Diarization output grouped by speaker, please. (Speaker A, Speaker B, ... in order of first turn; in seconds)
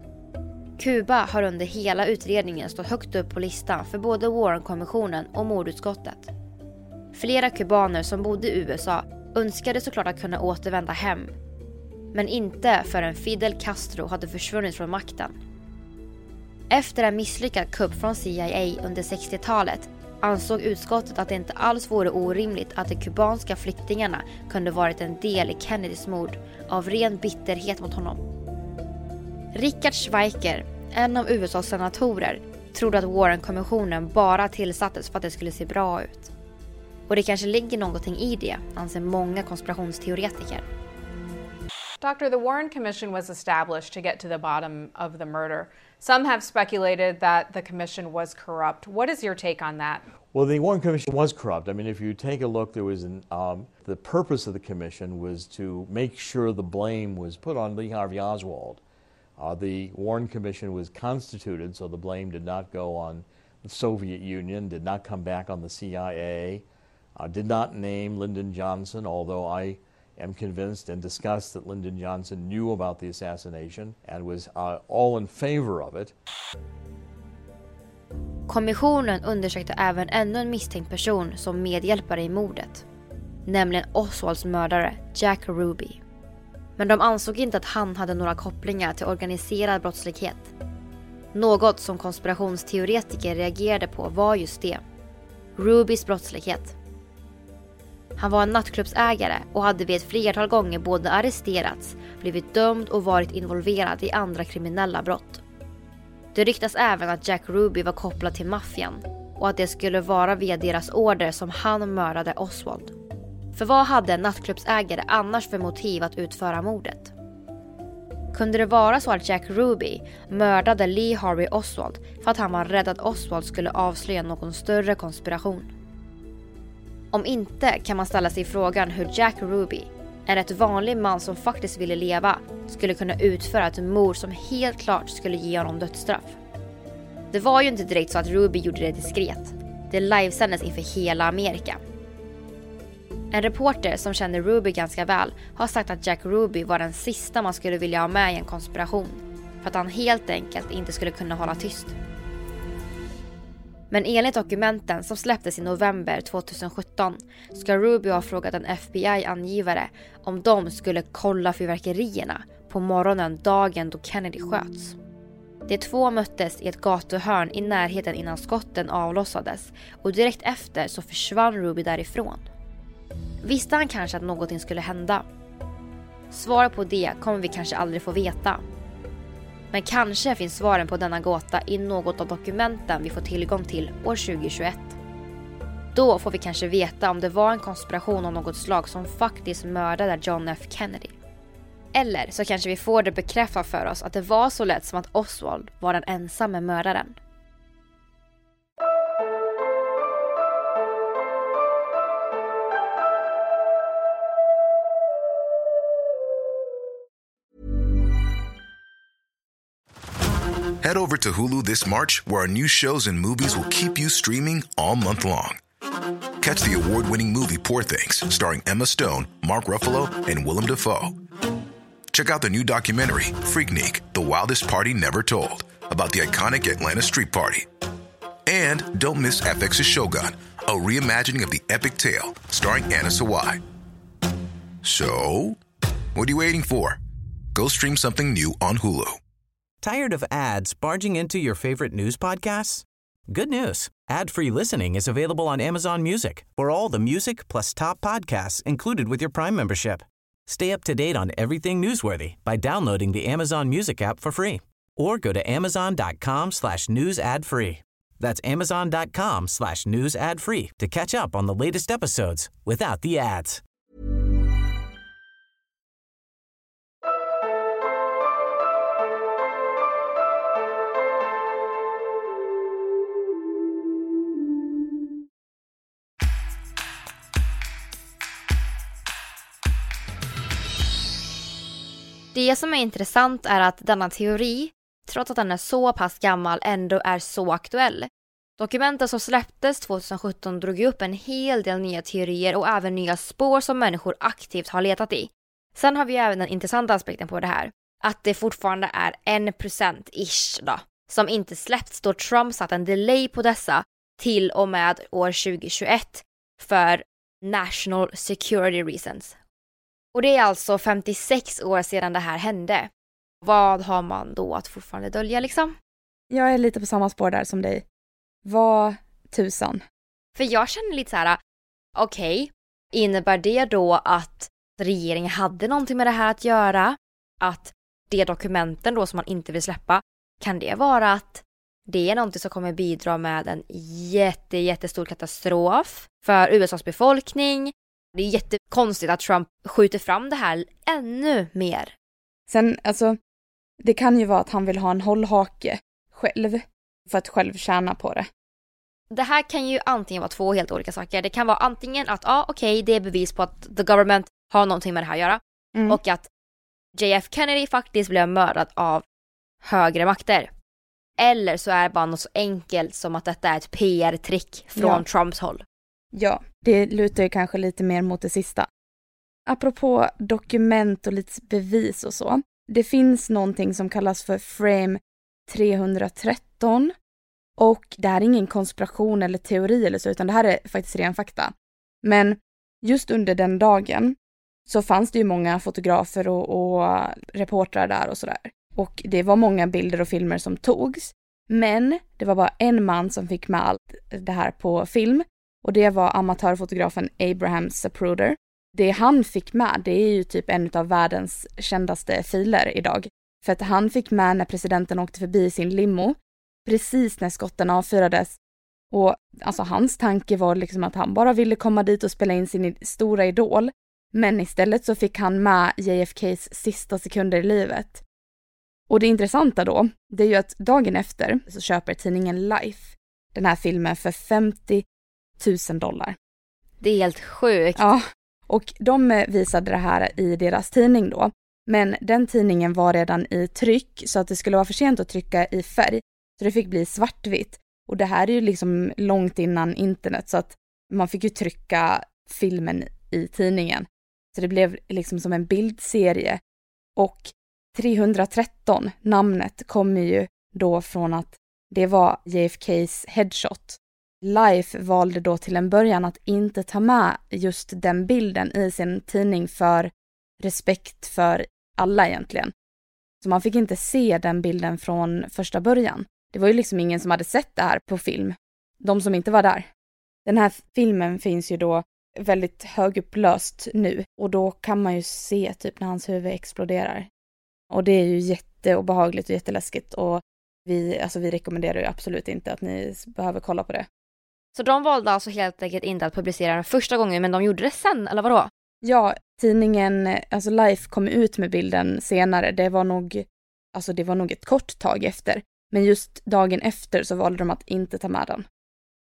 Speaker A: 0.8-6.3, 7.1-11.3, 12.1-15.3, 16.7-28.2, 29.5-36.3, 37.1-40.6, 78.5-82.8, 83.5-86.0, 86.8-90.5, 91.3-94.8, 95.6-96.8, 98.2-105.4, 106.3-112.9, 113.5-117.1, 118.3-125.7, 127.1-136.4, 137.3-141.8, 143.3-151.9, 153.9-164.9, 165.7-172.5, 173.4-175.2, 176.3-178.6, 179.7-185.0, 185.9-191.2, 191.9-197.2, 282.3-309.4, 310.1-312.9, 313.4-315.8, 320.4-321.4, 321.9-341.9, 349.1-356.2, 356.9-359.0, 359.6-360.5, 361.2-365.6, 426.8-427.8, 484.5-488.5
Speaker B: 42.0-50.0
Speaker C: 50.3-58.8, 59.4-66.6, 67.2-76.1
Speaker D: 210.8-215.6, 216.4-221.1, 222.1-227.7, 228.5-233.6, 234.8-235.6, 236.1-237.0, 237.5-239.2
Speaker E: 239.8-263.6
Speaker F: 316.3-317.8, 318.4-319.8, 342.5-343.2, 343.8-348.2, 355.7-356.0, 364.8-365.0, 366.1-368.7, 369.5-376.9, 377.6-384.1, 384.7-408.4, 408.9-418.0, 418.9-424.8, 425.4-426.1, 427.8-446.4, 446.9-462.5, 463.2-469.7, 470.2-477.1, 477.7-483.9, 488.8-498.4